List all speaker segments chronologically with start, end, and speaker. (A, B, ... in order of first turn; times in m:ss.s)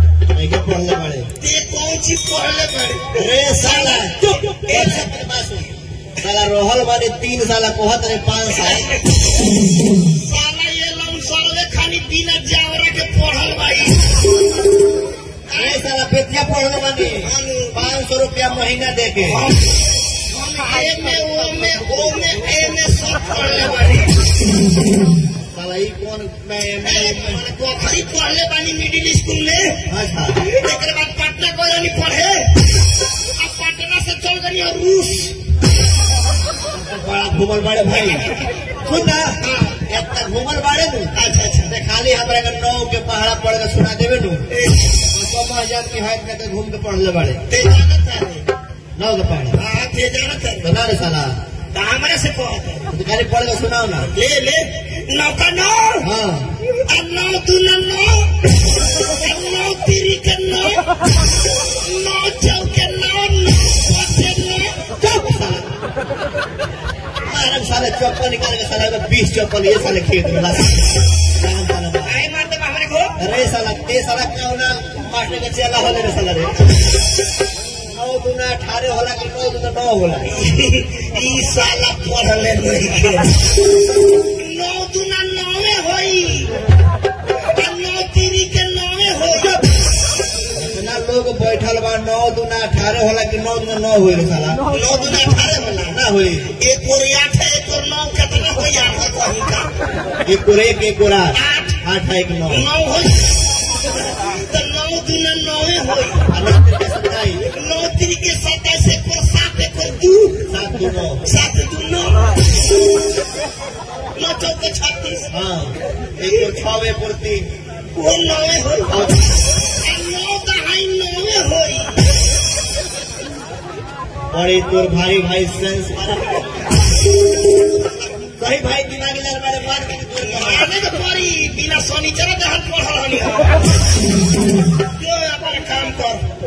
0:00.3-0:01.3 A
0:01.4-0:05.1 B
0:03.2-0:08.9 A
0:08.5-0:09.2 B
0:10.1-0:14.2 B
0:15.5-0:15.8 B
0:15.6-0:19.4 A
0:17.1-0:17.9 B
0:19.3-0:19.8 B
0:20.3-0:24.2 B
0:25.5-0:27.4 A
0:26.8-0:35.4 B
0:29.9-0:30.4 A
0:36.7-0:38.3 A
0:37.9-0:38.4 B
0:38.8-0:41.1 A
0:39.4-0:39.8 B
0:41.1-0:41.7 B
0:41.7-0:44.4 A
0:44.5-0:44.9 B
0:45.1-0:47.4 A
0:47.5-0:48.4 B
0:49.0-0:49.6 A
0:49.5-0:50.7 B
0:50.6-0:51.3 A
0:51.7-0:52.9 B
0:52.9-0:54.1 A
0:54.1-0:56.1 B
0:56.0-0:56.5 A
0:56.8-1:00.8 B
1:01.7-1:05.0 B
1:05.0-1:05.7 A
1:07.2-1:10.8 A
1:11.4-1:12.2 A
1:12.0-1:13.2 B
1:13.2-1:16.6 A
1:17.9-1:20.3 A
1:20.3-1:23.4 B
1:24.3-1:26.5 B
1:27.5-1:29.6 B
1:30.5-1:34.6 A
1:34.7-1:36.0 B
1:35.9-1:36.5 A
1:36.5-1:39.7 B
1:40.2-1:42.6 A
1:41.3-1:41.8 B
1:42.5-1:46.2 B
1:46.3-1:47.4 A
1:47.4-1:50.4 B
1:50.5-1:51.2 A
1:51.2-1:52.5 B
1:54.2-1:55.3 B
1:55.3-1:57.4 A
1:56.2-1:56.5 B
1:57.9-1:59.0 B
1:58.9-1:59.3 A
1:59.7-2:02.0 B
2:04.3-2:06.5 A
2:08.4-2:10.7 A
2:10.2-2:13.7 B
2:15.0-2:16.2 B